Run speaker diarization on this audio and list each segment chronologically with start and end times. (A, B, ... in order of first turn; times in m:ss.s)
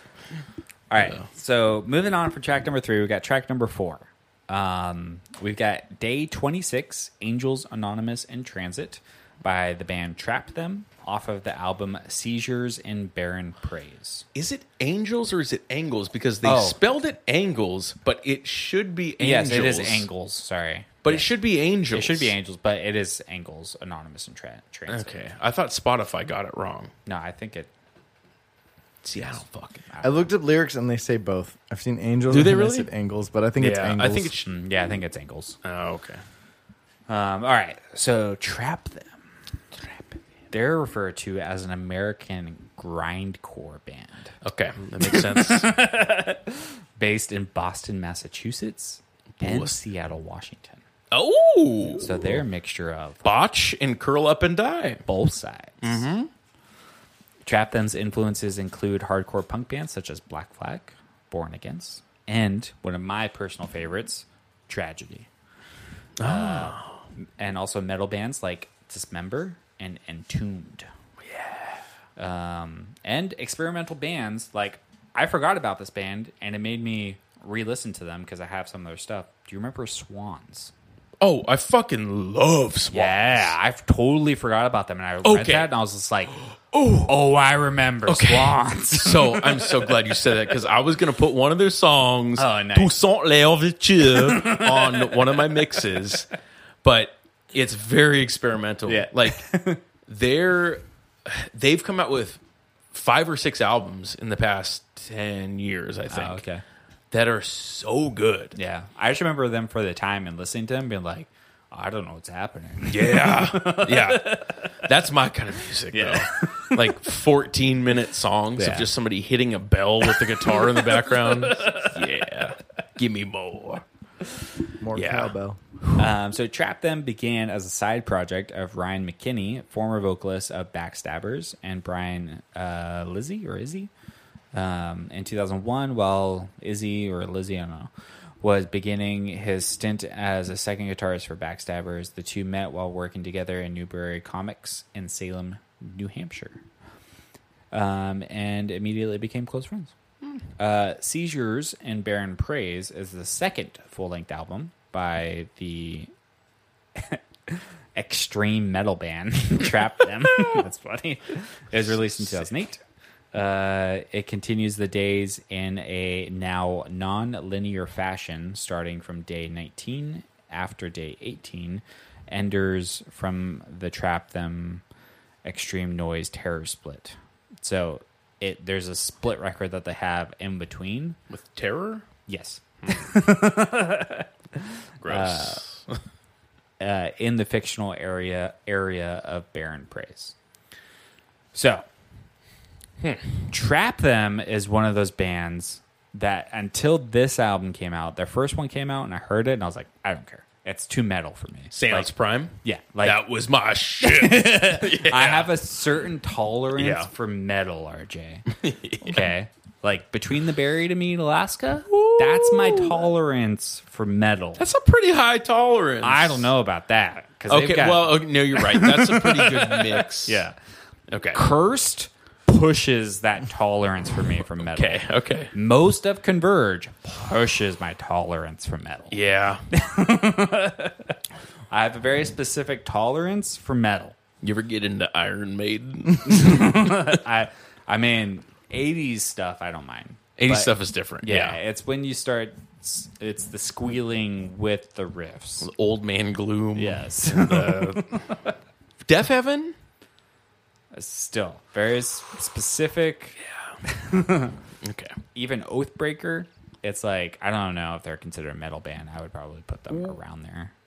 0:00.9-0:14.2 A
0:14.3-0:20.1 B
0:16.4-0:16.8 A
0:19.2-0:21.3 A
0:21.0-0:22.3 B
0:21.9-0:25.2 A
0:24.9-0:26.9 B
0:27.0-0:27.7 A
0:29.0-0:29.8 B
0:29.9-0:30.3 A
0:30.0-0:34.3 C
0:32.3-0:32.9 B
0:33.6-0:34.5 B
0:34.4-0:35.6 A
0:35.6-0:36.2 B
0:37.1-0:39.2 A
0:39.8-0:44.3 A
0:44.4-0:45.7 B
0:45.0-0:50.8 A
0:49.4-0:49.7 B
0:51.1-0:52.4 B
0:52.0-0:53.3 A
0:53.2-0:55.0 B
0:55.1-0:56.0 A
0:55.8-0:56.3 B
0:57.4-1:05.3 A
1:06.2-1:07.0 B
1:06.2-1:06.8 A
1:07.4-1:10.9 A
1:11.2-1:11.8 B
1:12.2-1:20.7 A
1:21.2-1:23.6 B
1:22.9-1:26.4 A
1:25.2-1:25.7 B
1:26.7-1:27.1 B
1:27.1-1:30.0 A
1:28.0-1:36.3 B
1:32.4-1:32.9 A
1:34.0-1:36.1 A
1:36.8-1:39.4 B
1:38.9-1:39.8 A
1:40.1-1:42.4 B
1:42.9-1:46.4 B
1:46.1-1:46.6 A
1:47.1-1:48.5 B
1:48.5-1:54.7 A
1:52.9-2:03.8 B
1:55.9-1:56.8 A
1:58.6-1:58.9 A
2:00.0-2:02.0 A
2:04.8-2:05.6 C
2:04.9-2:06.1 B
2:06.0-2:13.9 A
2:14.5-2:17.9 A
2:18.4-2:26.6 A
2:27.7-2:29.9 A
2:30.6-2:36.1 A
2:36.9-2:42.8 A
2:43.3-2:54.8 A
2:55.4-3:01.2 A
3:01.3-3:02.0 B
3:02.3-3:05.6 A
3:05.0-3:06.0 B
3:06.8-3:10.3 A
3:11.5-3:11.8 A
3:13.0-3:13.4 B
3:13.5-3:22.1 A
3:21.7-3:25.5 B
3:22.6-3:23.2 A
3:24.0-3:28.5 A
3:26.8-3:27.1 B
3:28.5-3:29.2 B
3:29.0-3:34.6 A
3:31.9-3:33.1 B
3:34.6-3:36.5 B
3:36.0-3:40.5 A
3:37.5-3:40.4 B
3:41.1-3:41.4 B
3:41.3-3:49.2 A
3:44.6-3:45.5 B
3:49.1-3:49.6 B
3:49.7-3:51.1 A
3:51.7-3:54.2 A
3:54.4-3:57.2 B
3:56.2-4:05.7 A
4:00.4-4:01.6 B
4:05.6-4:08.3 B
4:06.8-4:08.5 A
4:09.0-4:09.7 B
4:10.9-4:14.6 A
4:13.5-4:13.8 B
4:14.8-4:15.1 B
4:15.3-4:20.7 A